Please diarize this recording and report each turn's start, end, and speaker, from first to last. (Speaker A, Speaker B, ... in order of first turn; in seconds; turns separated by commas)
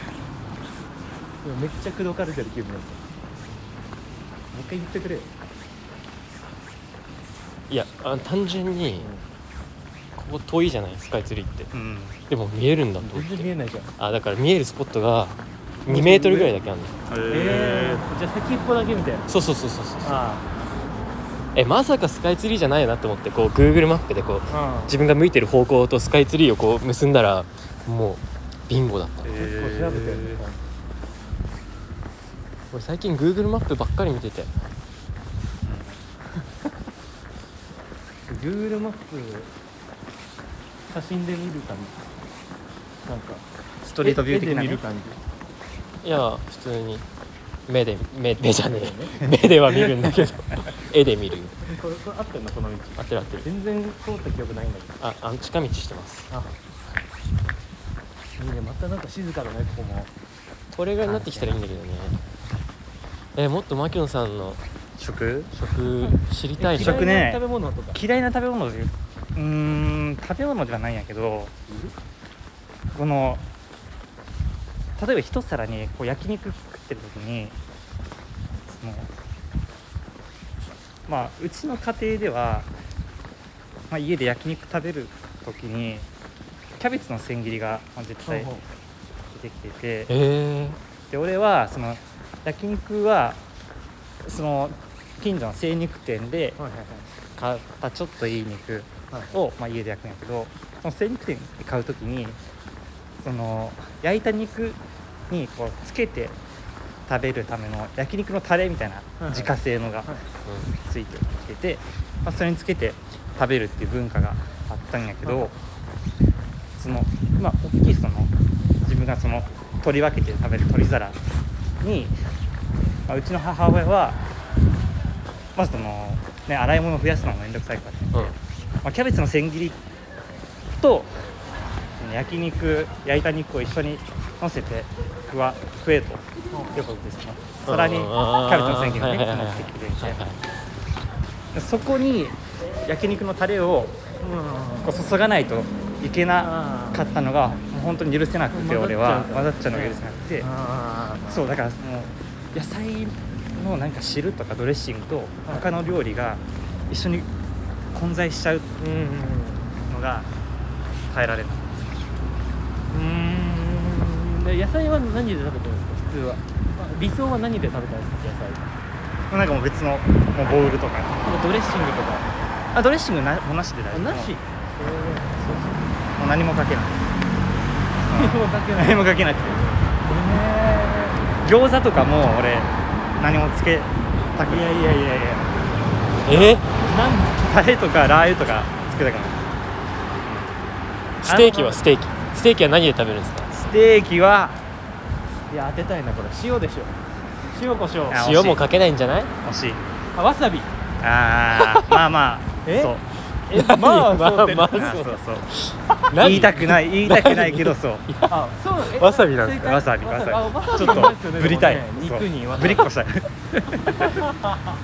Speaker A: 1.4-3.0, Speaker A: 4.5-5.3, Speaker B: 7.7-9.1, Speaker A: 9.0-9.2, Speaker B: 10.2-11.7, Speaker C: 11.7-12.2, Speaker B: 12.3-17.0, Speaker A: 13.0-13.9, Speaker A: 15.9-16.6, Speaker C: 17.1-18.1, Speaker A: 17.3-19.3, Speaker B: 19.3-20.3, Speaker A: 20.0-20.4, Speaker B: 21.5-29.5, Speaker A: 24.5-24.9, Speaker C: 29.2-30.4, Speaker A: 29.4-30.6, Speaker B: 32.7-34.6, Speaker C: 35.6-36.1, Speaker A: 38.3-39.5, Speaker A: 40.9-42.1, Speaker A: 43.1-43.4, Speaker C: 43.8-44.8, Speaker A: 44.0-45.2, Speaker B: 46.0-47.1, Speaker B: 47.7-51.6, Speaker A: 48.6-49.2, Speaker A: 51.7-55.0, Speaker B: 53.0-53.5, Speaker B: 55.0-56.3, Speaker A: 58.4-60.1, Speaker B: 60.7-62.2, Speaker C: 61.0-61.6, Speaker B: 63.4-64.6, Speaker C: 65.0-65.5, Speaker B: 65.5-67.2, Speaker A: 66.6-68.0, Speaker C: 66.7-71.5, Speaker A: 71.7-71.9, Speaker C: 72.9-73.5, Speaker C: 75.0-77.5, Speaker C: 78.7-79.1, Speaker C: 81.1-82.7, Speaker C: 83.9-86.1, Speaker C: 86.8-88.5, Speaker A: 88.3-88.6, Speaker C: 89.3-90.1, Speaker B: 90.1-90.8, Speaker C: 91.1-93.4, Speaker C: 94.2-96.6, Speaker A: 96.6-97.1, Speaker C: 97.4-102.4, Speaker C: 103.2-104.8, Speaker C: 105.3-106.4, Speaker C: 107.1-110.1, Speaker A: 109.2-109.5, Speaker B: 110.5-110.7, Speaker C: 110.8-115.6, Speaker A: 115.2-115.5, Speaker C: 116.8-118.3, Speaker C: 118.8-121.2, Speaker C: 121.8-122.2, Speaker C: 123.1-124.2, Speaker C: 125.6-129.8, Speaker C: 130.8-131.2, Speaker C: 132.0-140.2, Speaker A: 136.5-136.8, Speaker B: 137.7-140.4, Speaker C: 141.5-144.0, Speaker A: 144.2-144.9, Speaker C: 144.8-150.5, Speaker A: 146.4-147.1, Speaker A: 148.5-151.5, Speaker C: 151.3-157.3, Speaker C: 157.9-158.7, Speaker A: 158.8-159.7, Speaker C: 159.9-160.3, Speaker C: 161.1-162.0, Speaker A: 162.9-168.7, Speaker C: 169.3-171.2, Speaker A: 171.2-172.3, Speaker C: 172.7-174.3, Speaker A: 173.9-175.9, Speaker C: 176.2-177.1, Speaker C: 178.1-185.5, Speaker A: 178.1-179.2, Speaker A: 180.1-180.4, Speaker A: 184.4-185.0, Speaker B: 186.3-186.7, Speaker C: 186.3-186.6, Speaker A: 186.8-187.4, Speaker C: 187.4-189.4, Speaker B: 191.2-193.7, Speaker C: 191.2-191.8, Speaker C: 193.7-194.6, Speaker A: 195.5-196.9, Speaker A: 197.5-198.2, Speaker C: 198.1-198.6, Speaker B: 198.1-199.3, Speaker C: 199.4-199.8, Speaker A: 200.2-200.7, Speaker C: 201.0-203.1, Speaker A: 202.7-202.9, Speaker A: 203.5-205.0, Speaker B: 203.5-209.8, Speaker C: 204.7-205.5, Speaker C: 206.2-208.1, Speaker A: 208.3-212.9, Speaker C: 209.6-214.2